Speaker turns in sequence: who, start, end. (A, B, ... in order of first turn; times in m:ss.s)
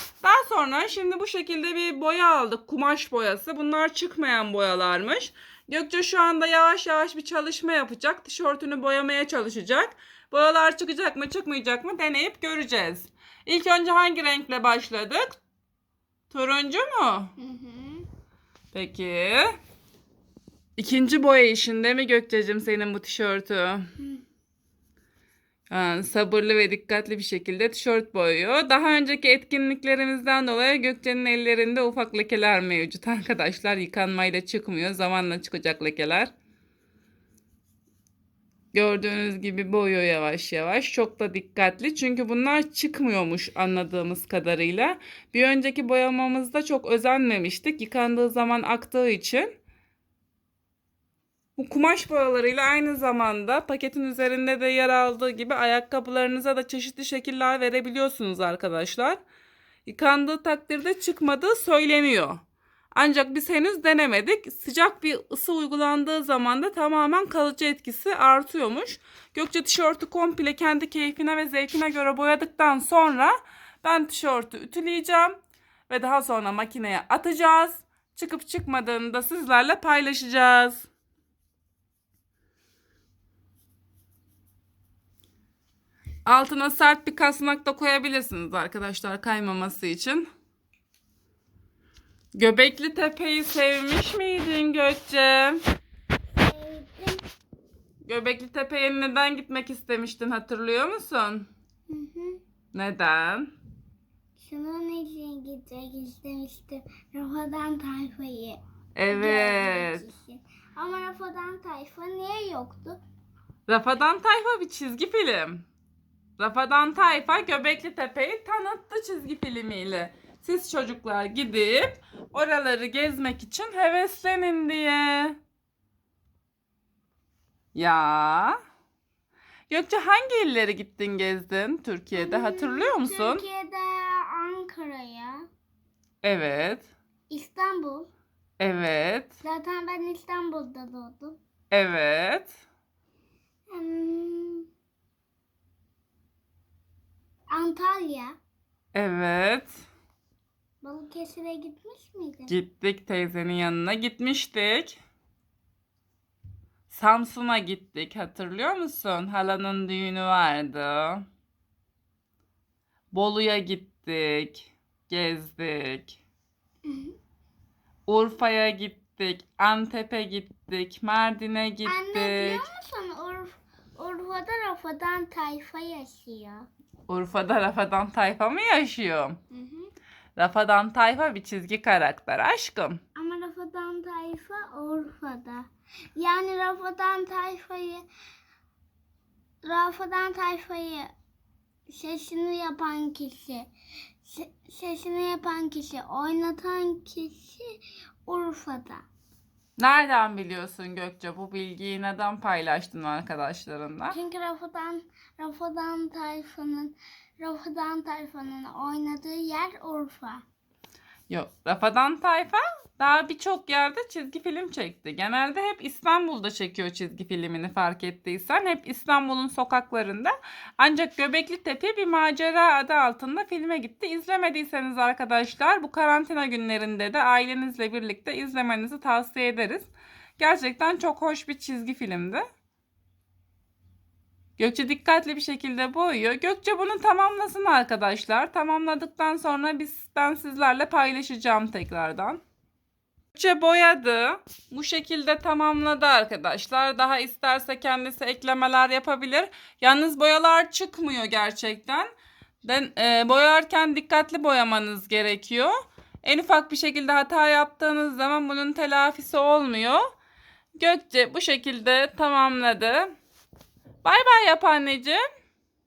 0:00.2-0:15.4 A
0:16.3-0:17.3 A
0:17.4-0:18.1 B
0:18.7-0:19.5 A
0:20.8-0:23.9 A
0:25.7-0:36.3 A
0:38.7-0:49.5 A
0:51.6-0:59.2 A
0:59.9-1:02.4 A
1:02.9-1:15.4 A
1:15.9-1:20.9 A
1:26.3-1:30.3 A
1:32.3-1:35.6 A
1:36.3-1:37.2 B
1:38.0-1:41.5 A
1:41.9-1:42.4 B
1:42.7-1:43.5 A
1:44.4-1:53.0 B
1:49.0-1:50.1 A
1:53.7-1:55.7 A
1:56.4-2:05.4 A
2:07.7-2:08.6 A
2:09.7-2:13.4 A
2:12.1-2:15.4 B
2:16.2-2:16.9 A
2:17.3-2:18.1 B
2:18.6-2:19.4 A
2:19.4-2:21.4 B
2:21.7-2:22.6 A
2:23.7-2:24.7 B
2:27.5-2:28.4 B
2:28.9-2:29.8 A
2:30.8-2:32.6 B
2:32.5-2:35.0 A
2:36.9-2:41.2 A
2:43.1-2:46.2 A
2:46.8-2:47.2 B
2:48.1-2:52.7 A
2:51.8-2:56.7 B
2:57.1-2:59.4 A
2:59.5-2:59.9 B
3:00.4-3:03.0 A
3:03.2-3:08.0 B
3:09.6-3:11.1 B
3:11.9-3:13.7 B
3:14.2-3:17.7 B
3:18.2-3:19.0 B
3:19.8-3:24.2 A
3:24.1-3:30.4 B
3:31.3-3:52.4 A
3:54.6-4:02.4 A
4:03.4-4:12.1 A
4:12.6-4:15.7 A
4:16.2-4:20.0 A
4:20.8-4:23.1 A
4:24.0-4:25.2 A